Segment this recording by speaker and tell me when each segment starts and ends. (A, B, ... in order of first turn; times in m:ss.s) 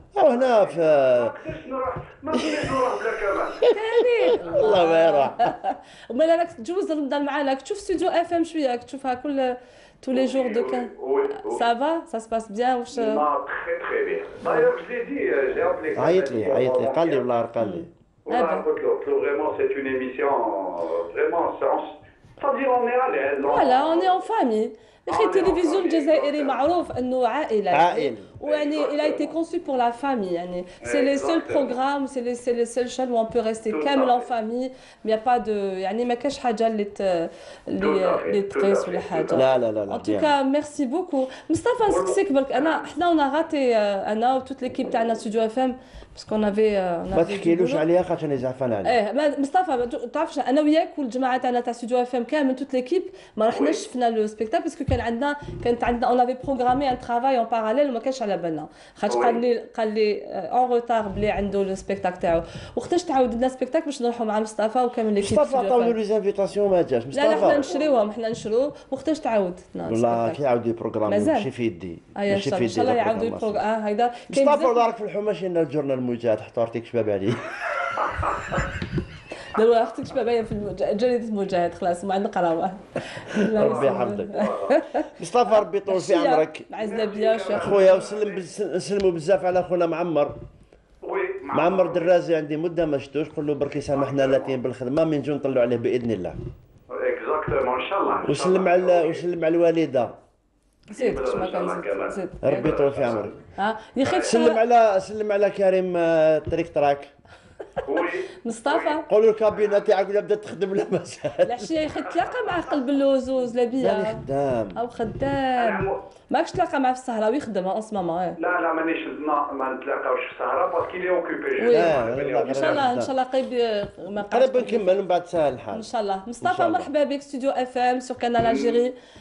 0:00.1-0:01.4 A
0:00.3-0:03.7 B
0:03.6-0:05.5 A
0:03.7-0:13.2 C
0:10.1-0:11.6 B
0:12.9-0:17.2 B
0:15.9-0:17.9 A
0:17.6-0:18.6 C
0:18.2-0:24.1 B
0:23.4-0:47.8 C
0:25.1-0:26.6 B
0:27.7-0:28.3 A
0:28.4-0:29.3 B
0:30.8-0:31.7 B
0:33.7-0:34.3 B
0:37.8-0:39.4 B
0:39.3-0:40.3 A
0:41.9-0:42.9 B
0:47.1-0:49.0 A
0:48.8-1:06.0 C
0:53.5-0:53.8 B
0:59.1-0:59.4 B
1:05.2-1:07.7 A
1:07.1-1:10.4 C
1:07.4-1:07.8 B
1:09.8-1:13.6 A
1:11.1-1:11.5 C
1:12.1-1:14.8 C
1:14.3-1:17.8 A
1:19.5-1:25.0 C
1:23.5-1:24.5 A
1:23.6-1:24.8 B
1:25.2-1:26.6 A
1:25.9-1:27.8 C
1:26.8-1:28.4 B
1:27.5-1:30.4 A
1:31.0-1:32.1 B
1:31.5-1:36.4 A
1:33.9-1:34.6 B
1:36.9-1:39.2 B
1:38.2-1:40.1 A
1:40.9-1:42.8 C
1:40.9-1:43.3 B
1:42.4-1:43.4 A
1:43.6-1:44.6 C
1:44.0-1:44.3 B
1:44.2-1:47.1 A
1:47.8-1:49.0 B
1:48.4-1:49.0 C
1:49.1-1:51.8 A
1:51.4-1:54.2 C
1:53.8-1:54.8 A
1:54.8-1:58.4 C
1:55.6-1:56.0 B
1:58.4-2:02.8 B
2:01.6-2:04.9 C
2:01.7-2:03.1 A
2:04.3-2:05.9 A
2:05.7-2:08.9 C
2:06.4-2:06.9 A
2:08.4-2:08.8 B